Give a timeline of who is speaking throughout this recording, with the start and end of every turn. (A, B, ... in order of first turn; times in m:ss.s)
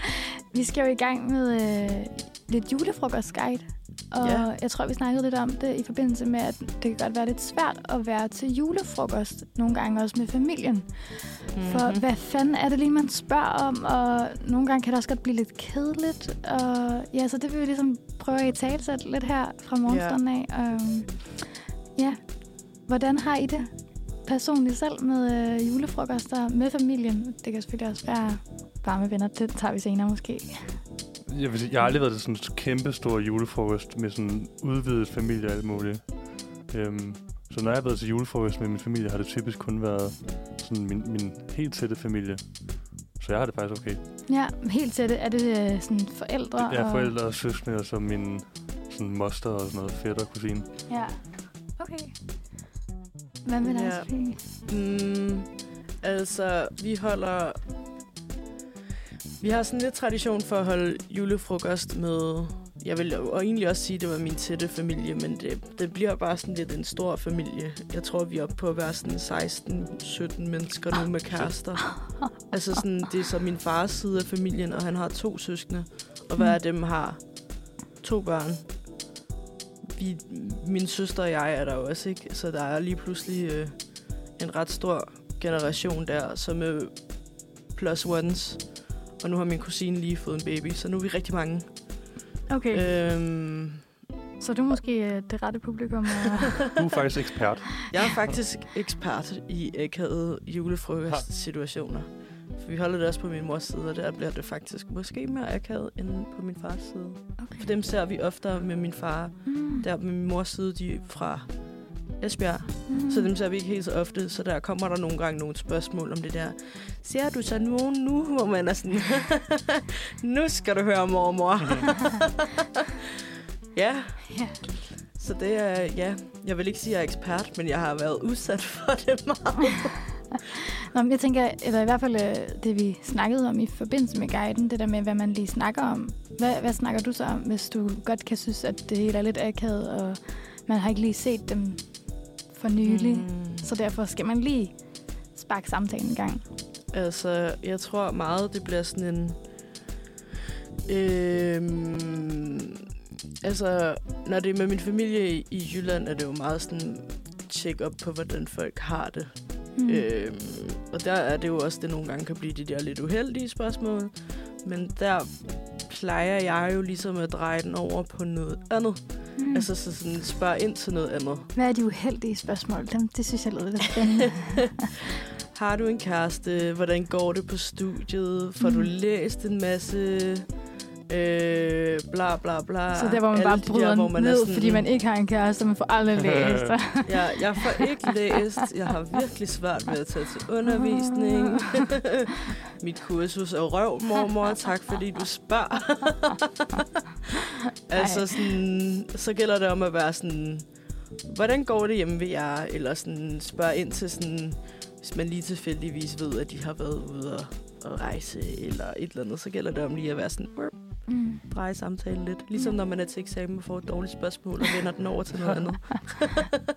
0:00.5-0:23.7 A
0:04.2-0:04.5 B
0:11.6-0:12.0 B
0:19.9-0:20.2 B
0:24.2-0:30.8 A
0:31.3-0:44.0 C
0:44.3-0:47.2 A
0:46.6-0:50.7 C
0:50.9-0:52.2 A
0:53.4-0:54.4 A
0:53.6-0:57.6 B
0:59.4-1:17.5 B
1:11.3-1:11.6 C
1:12.1-1:12.3 A
1:18.0-1:18.7 B
1:19.9-1:27.1 B
1:27.7-1:32.1 B
1:32.5-1:32.8 A
1:32.7-1:33.8 B
1:34.4-1:36.7 A
1:36.8-1:37.8 C
1:37.9-1:51.5 B
1:49.5-1:49.8 A
1:52.2-2:02.9 B
1:52.9-1:53.3 A
2:03.7-2:04.4 B
2:04.3-2:04.6 A
2:05.0-2:10.1 B
2:10.5-2:24.8 A
2:22.8-2:23.7 B
2:25.3-2:26.4 A
2:26.9-2:29.6 B
2:30.9-2:32.8 B
2:33.4-2:51.5 B
2:39.8-2:40.1 A
2:49.4-2:49.7 A
2:51.6-2:54.8 A
2:55.5-3:00.5 B
2:58.6-2:58.9 A
3:01.1-3:04.9 B
3:02.9-3:07.8 A
3:06.3-3:06.8 C
3:07.0-3:16.8 B
3:11.1-3:11.6 A
3:17.9-3:20.7 B
3:21.2-3:36.6 B
3:31.1-3:31.4 A